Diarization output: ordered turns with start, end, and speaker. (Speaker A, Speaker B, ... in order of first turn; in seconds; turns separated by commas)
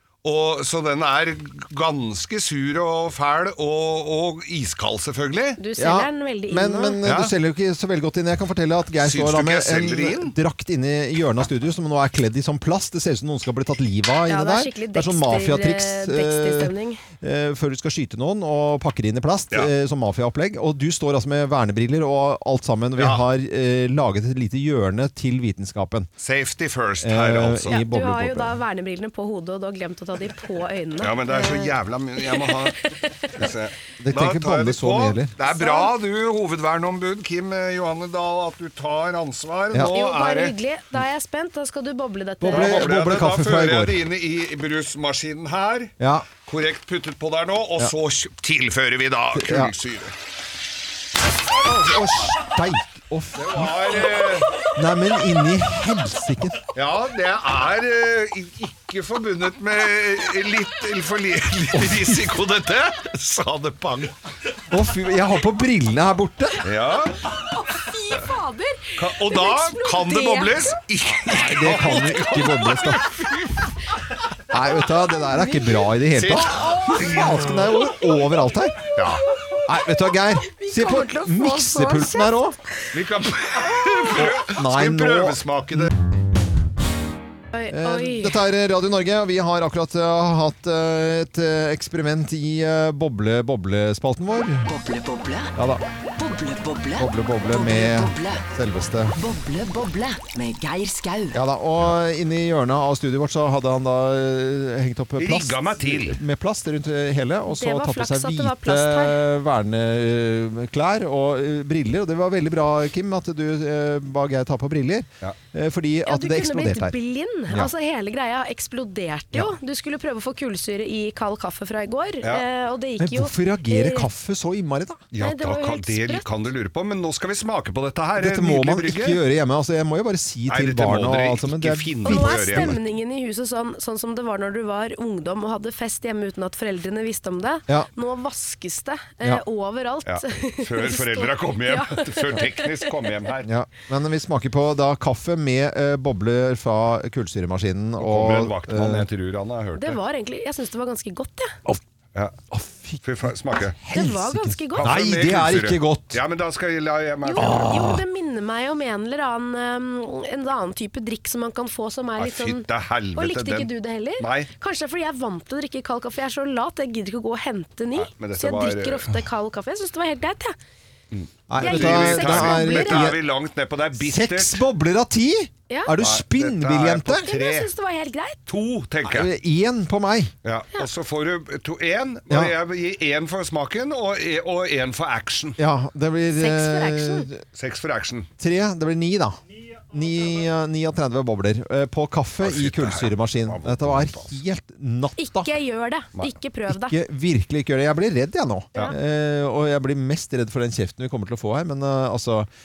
Speaker A: 0.2-5.6, Speaker B: 5.6-7.0, Speaker C: 5.8-26.1, Speaker A: 7.0-7.3, Speaker A: 9.0-10.3, Speaker B: 14.3-17.0, Speaker A: 23.0-23.2, Speaker A: 26.2-27.8, Speaker C: 27.0-28.6, Speaker B: 27.7-33.5, Speaker A: 31.0-40.5, Speaker C: 34.0-35.3, Speaker B: 35.4-35.9, Speaker B: 39.9-42.8, Speaker C: 42.4-44.0, Speaker A: 42.5-50.1, Speaker C: 46.0-46.3, Speaker C: 49.3-49.7, Speaker C: 51.6-56.6, Speaker A: 53.4-54.6, Speaker A: 56.7-64.2, Speaker C: 61.7-62.4, Speaker C: 64.7-66.7, Speaker A: 66.6-67.2, Speaker B: 67.3-70.8, Speaker A: 69.0-73.7, Speaker C: 71.2-73.1, Speaker C: 74.5-78.9, Speaker B: 75.3-75.9, Speaker A: 76.1-77.8, Speaker A: 78.9-79.2, Speaker C: 79.7-82.6, Speaker B: 80.4-82.3, Speaker A: 82.9-85.9, Speaker C: 84.1-85.9, Speaker B: 87.5-88.4, Speaker C: 87.7-94.7, Speaker D: 94.7-95.5, Speaker C: 95.5-95.8, Speaker D: 96.2-98.5, Speaker C: 97.0-99.2, Speaker D: 99.2-101.4, Speaker C: 101.3-116.9, Speaker A: 105.2-106.2, Speaker B: 107.5-109.2, Speaker B: 116.0-124.1, Speaker C: 123.0-125.0, Speaker A: 125.1-129.2, Speaker B: 125.2-126.2, Speaker C: 128.2-132.8, Speaker A: 130.5-132.8, Speaker B: 132.1-142.9, Speaker A: 140.1-143.5, Speaker C: 143.4-149.1, Speaker A: 148.0-150.0, Speaker B: 149.8-151.6, Speaker C: 152.5-153.3, Speaker A: 153.0-153.8, Speaker C: 153.8-156.2, Speaker B: 153.9-154.9, Speaker A: 154.8-158.0, Speaker B: 157.2-170.6, Speaker C: 157.4-158.0, Speaker A: 162.2-164.5, Speaker A: 167.9-169.2, Speaker A: 171.1-174.6, Speaker C: 171.5-173.2, Speaker B: 171.6-173.1, Speaker C: 174.0-177.3, Speaker B: 175.7-175.9, Speaker A: 176.0-177.7, Speaker B: 177.2-178.4, Speaker A: 178.5-179.3, Speaker C: 179.1-180.3, Speaker A: 180.4-185.6, Speaker C: 185.6-187.4, Speaker B: 186.4-187.3, Speaker A: 187.6-188.3, Speaker C: 188.4-195.6, Speaker A: 192.4-194.3, Speaker B: 195.2-197.0, Speaker C: 196.7-202.5